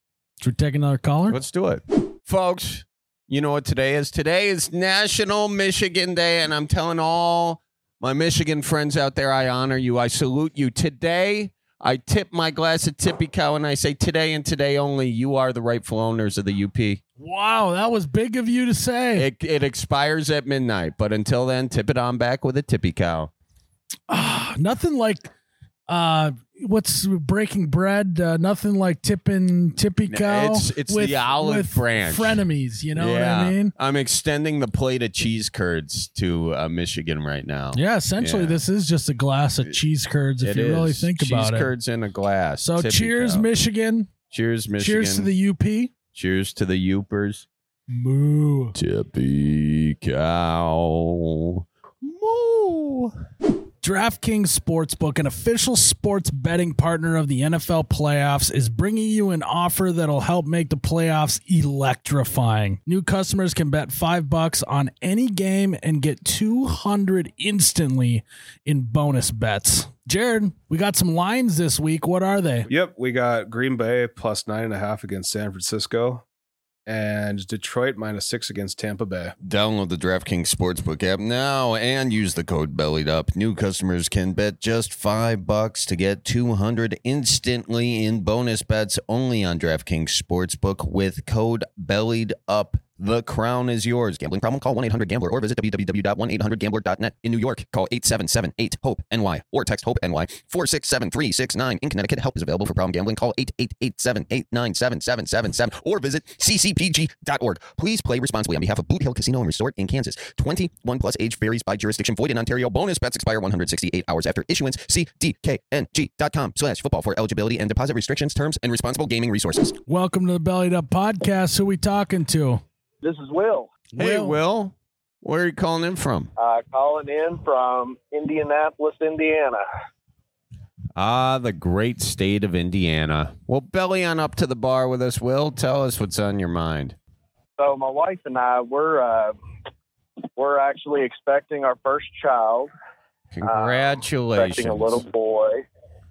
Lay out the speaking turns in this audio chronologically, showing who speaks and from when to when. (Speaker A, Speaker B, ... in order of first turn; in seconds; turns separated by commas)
Speaker A: 0.4-1.4, Speaker B: 1.3-17.0, Speaker A: 17.2-19.3, Speaker B: 19.1-23.3, Speaker A: 24.1-25.3, Speaker A: 25.9-33.7, Speaker B: 30.1-32.4, Speaker B: 32.9-38.6, Speaker A: 37.7-41.7, Speaker B: 40.4-43.5, Speaker A: 42.6-44.1, Speaker B: 44.3-45.3, Speaker A: 44.8-45.9, Speaker B: 46.1-47.5, Speaker A: 47.9-48.8, Speaker B: 48.7-53.1, Speaker A: 53.8-72.7, Speaker C: 72.7-76.2, Speaker C: 76.8-79.3, Speaker B: 79.4-119.7, Speaker A: 119.9-122.6, Speaker D: 123.0-123.8, Speaker A: 123.9-124.4, Speaker B: 124.0-126.3, Speaker D: 126.4-129.6, Speaker B: 130.9-137.0, Speaker D: 137.6-139.3, Speaker D: 140.4-142.7, Speaker B: 143.3-145.0, Speaker D: 143.4-145.6